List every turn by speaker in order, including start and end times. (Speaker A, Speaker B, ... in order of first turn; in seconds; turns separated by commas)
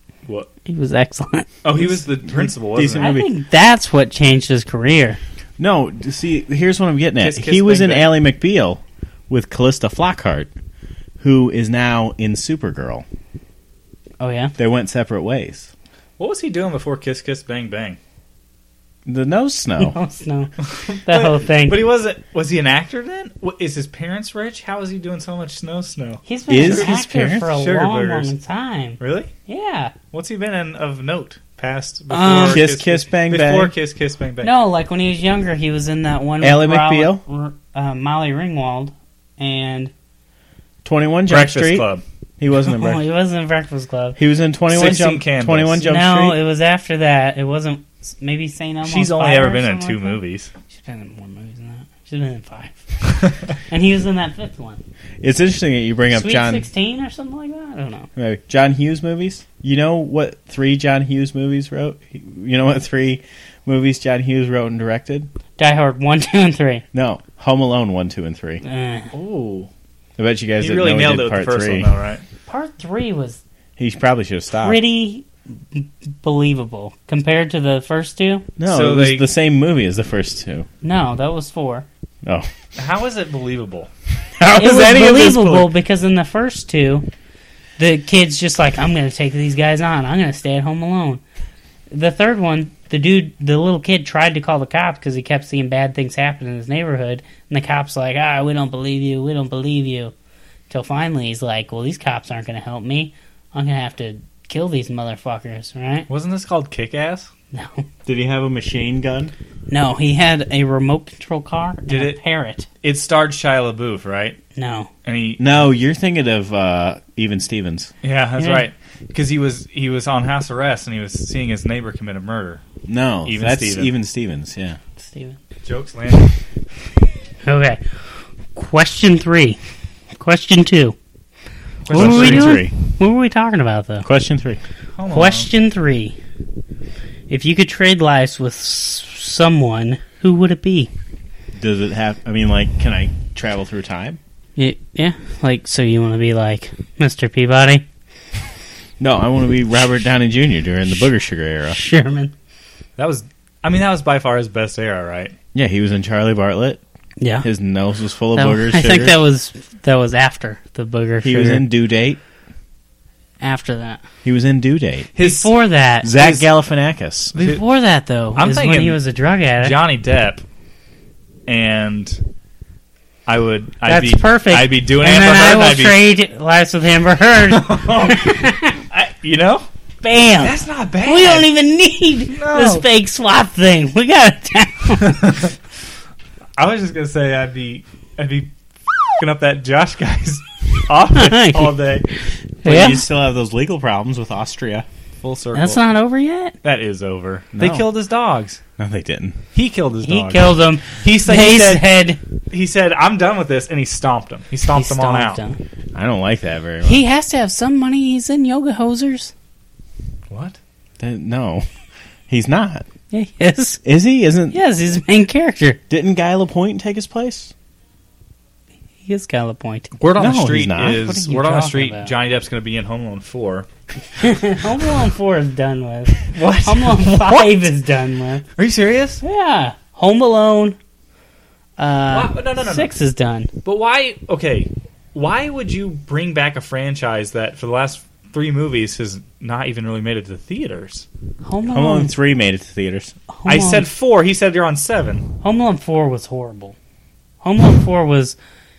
Speaker A: 0.7-1.5, Speaker B: 1.6-3.2, Speaker C: 1.8-3.3, Speaker A: 3.0-5.2, Speaker C: 5.6-10.5, Speaker B: 7.2-8.2, Speaker C: 11.2-13.1, Speaker A: 14.2-14.6, Speaker C: 14.6-15.7, Speaker B: 16.2-18.0, Speaker C: 19.1-20.0, Speaker A: 19.8-20.5, Speaker B: 20.6-28.3, Speaker A: 21.1-21.8, Speaker A: 26.3-29.9, Speaker C: 26.5-27.5, Speaker B: 29.0-29.3, Speaker B: 30.1-34.5, Speaker A: 32.1-32.6, Speaker C: 32.4-33.7, Speaker A: 34.4-39.9, Speaker C: 36.4-37.2, Speaker C: 40.8-41.9, Speaker B: 41.3-42.0, Speaker C: 42.4-43.0, Speaker A: 42.7-44.2, Speaker C: 44.2-46.4, Speaker B: 44.7-45.8, Speaker A: 45.8-50.2, Speaker B: 48.9-50.5, Speaker A: 50.7-52.8, Speaker A: 53.7-54.8, Speaker C: 55.2-56.7, Speaker A: 56.1-58.1, Speaker C: 58.2-65.3, Speaker A: 65.6-66.8, Speaker C: 66.9-68.6, Speaker A: 68.6-69.1, Speaker B: 69.1-69.7, Speaker C: 70.2-71.9, Speaker B: 70.6-72.2, Speaker A: 72.5-73.4, Speaker C: 73.8-74.8, Speaker A: 74.6-78.5, Speaker C: 78.6-80.7, Speaker B: 78.7-79.3, Speaker A: 80.8-81.9, Speaker B: 82.8-83.9, Speaker C: 84.4-85.7, Speaker A: 84.5-87.1, Speaker A: 87.8-91.2, Speaker A: 91.9-100.1, Speaker A: 100.7-106.1, Speaker B: 106.1-107.3, Speaker A: 107.5-107.9, Speaker C: 108.1-109.3, Speaker A: 109.7-112.7, Speaker B: 111.9-112.2, Speaker B: 112.8-114.4, Speaker A: 114.5-114.9, Speaker B: 115.0-115.7, Speaker C: 115.4-117.9, Speaker B: 118.0-122.6, Speaker A: 118.4-118.7, Speaker C: 122.9-124.8, Speaker B: 123.3-123.9, Speaker A: 125.0-125.4, Speaker B: 125.7-126.3, Speaker A: 127.5-127.8, Speaker A: 128.6-129.6, Speaker A: 130.2-131.0, Speaker B: 131.9-132.7, Speaker A: 131.9-134.1, Speaker C: 131.9-132.6, Speaker C: 134.0-134.6, Speaker B: 135.0-135.5, Speaker A: 135.1-136.2, Speaker A: 137.3-140.9, Speaker C: 141.6-144.2, Speaker A: 144.6-147.8, Speaker C: 149.0-151.8, Speaker A: 151.7-152.3, Speaker B: 153.0-155.3, Speaker C: 155.5-156.8, Speaker A: 157.2-157.5, Speaker C: 157.4-159.2, Speaker A: 158.3-161.7, Speaker C: 161.2-162.2, Speaker A: 163.4-164.0, Speaker C: 164.2-165.1, Speaker B: 165.2-165.5, Speaker A: 165.2-166.2, Speaker C: 166.0-167.3, Speaker B: 166.2-166.4, Speaker B: 167.3-167.6, Speaker A: 167.3-169.8, Speaker B: 168.3-169.0, Speaker B: 169.6-170.4, Speaker B: 171.5-172.2, Speaker B: 173.3-176.0, Speaker A: 173.8-178.8, Speaker B: 177.5-178.3, Speaker B: 178.9-179.7, Speaker A: 180.0-185.4, Speaker B: 180.4-181.5, Speaker B: 182.3-182.8, Speaker B: 185.1-185.5, Speaker B: 186.6-188.5, Speaker B: 189.1-192.1, Speaker A: 191.2-191.8, Speaker A: 192.6-193.1, Speaker C: 192.6-194.9, Speaker B: 195.2-195.8, Speaker A: 195.6-196.5, Speaker B: 196.6-198.6, Speaker C: 197.6-197.9, Speaker C: 198.8-199.4, Speaker B: 199.5-201.9, Speaker A: 200.0-202.2, Speaker B: 202.5-205.4, Speaker A: 204.7-205.6, Speaker C: 205.9-207.0, Speaker A: 206.8-209.3, Speaker B: 210.3-210.6, Speaker C: 211.0-211.7, Speaker C: 212.3-212.9, Speaker A: 213.1-213.8, Speaker C: 213.8-214.6, Speaker A: 214.5-215.8, Speaker C: 215.9-217.5, Speaker A: 219.1-219.9, Speaker B: 220.0-223.7, Speaker C: 220.2-221.1, Speaker A: 220.9-222.1, Speaker A: 224.2-228.4, Speaker B: 226.2-227.7, Speaker B: 228.6-229.2, Speaker A: 229.2-230.8, Speaker A: 231.8-233.5, Speaker B: 232.1-232.9, Speaker B: 233.6-241.1, Speaker A: 241.4-242.1, Speaker C: 241.7-243.2, Speaker A: 243.3-243.9, Speaker B: 243.5-245.3, Speaker A: 245.4-246.8, Speaker A: 247.4-248.4